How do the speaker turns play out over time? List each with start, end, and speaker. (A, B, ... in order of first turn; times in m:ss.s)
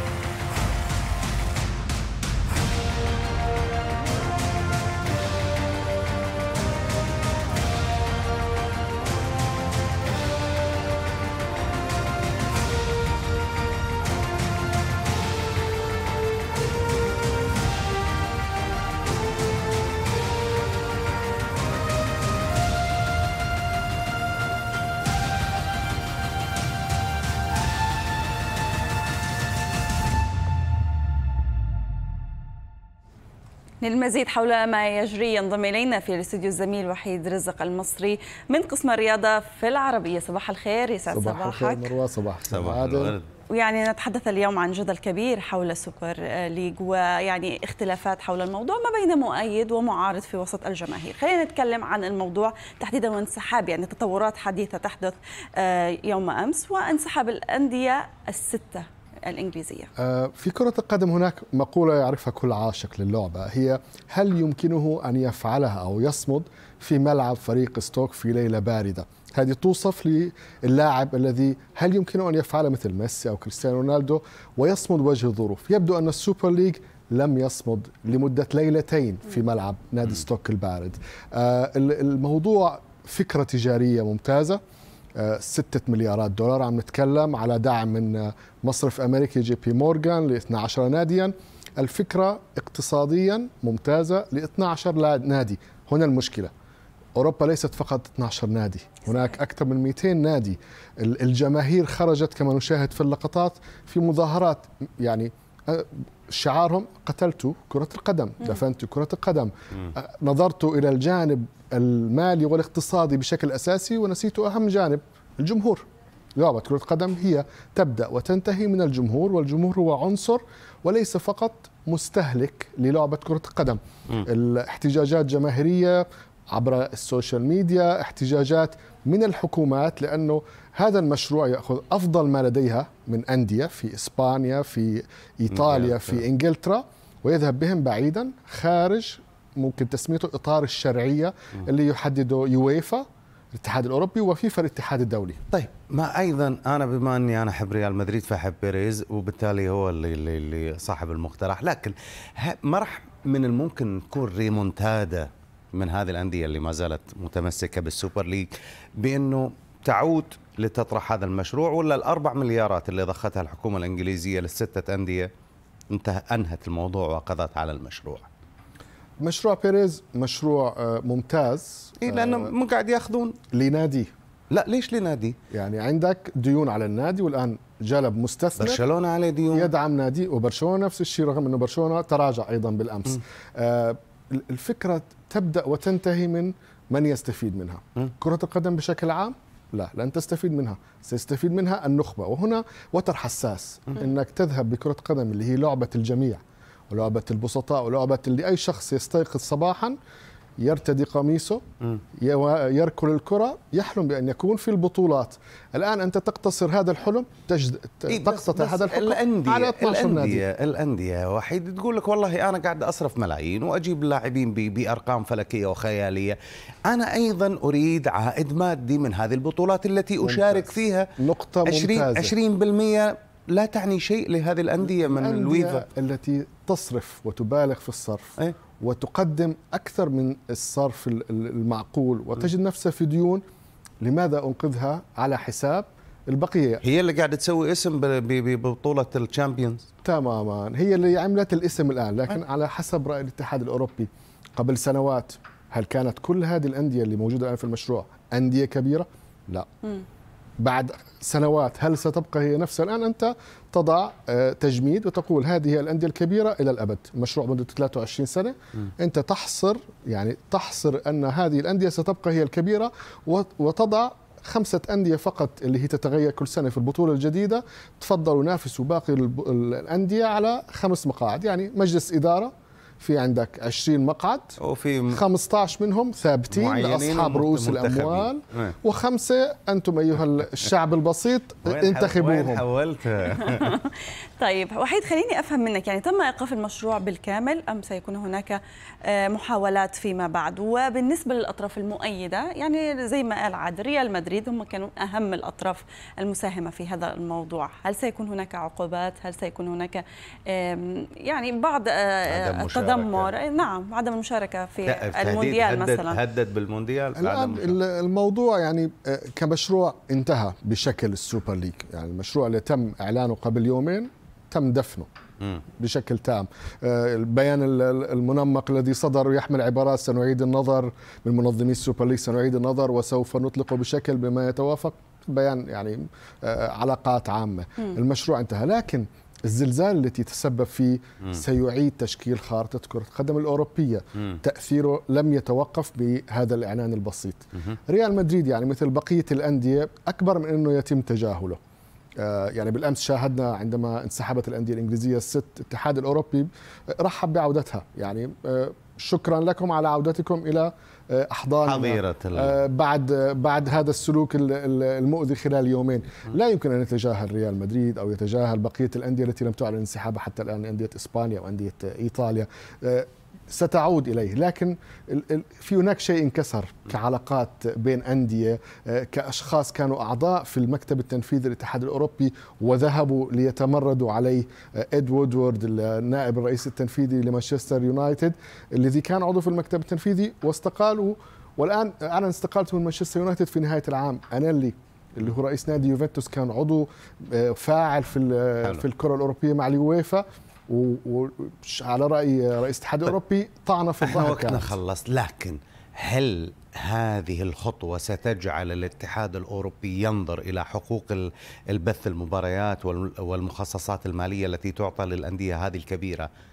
0:33.8-0:41.9 A
0:41.1-0:43.2 B
0:42.5-0:43.2 C
0:43.5-0:59.9 A
1:00.0-1:24.6 B
1:25.2-1:36.5 B
1:37.2-1:55.8 B
1:56.4-2:25.4 B
2:15.5-2:16.2 C
2:25.5-2:45.3 C
2:45.9-2:48.3 C
2:49.2-2:52.5 B
2:52.0-2:53.4 C
2:53.5-2:54.1 B
2:54.5-2:55.4 C
2:55.5-2:58.8 B
2:58.6-2:59.7 C
2:59.5-3:20.0 B
3:20.6-3:21.6 B
3:22.2-3:30.4 B
3:28.1-3:41.2 C
3:40.2-3:42.4 B
3:41.7-3:45.8 C
3:45.0-3:53.4 B
3:54.0-3:56.8 B
3:56.8-3:59.9 C
4:00.0-4:09.7 B
4:10.6-4:34.6 B
4:34.6-4:35.2 C
4:35.1-4:42.6 B
4:36.5-4:38.8 C
4:41.7-4:43.8 C
4:43.3-5:06.2 A
5:02.3-5:03.3 C
5:04.9-5:07.8 C
5:07.2-5:15.1 B
5:15.8-5:41.6 B
5:42.2-6:34.8 B
5:51.6-5:52.6 C
6:34.0-6:46.3 C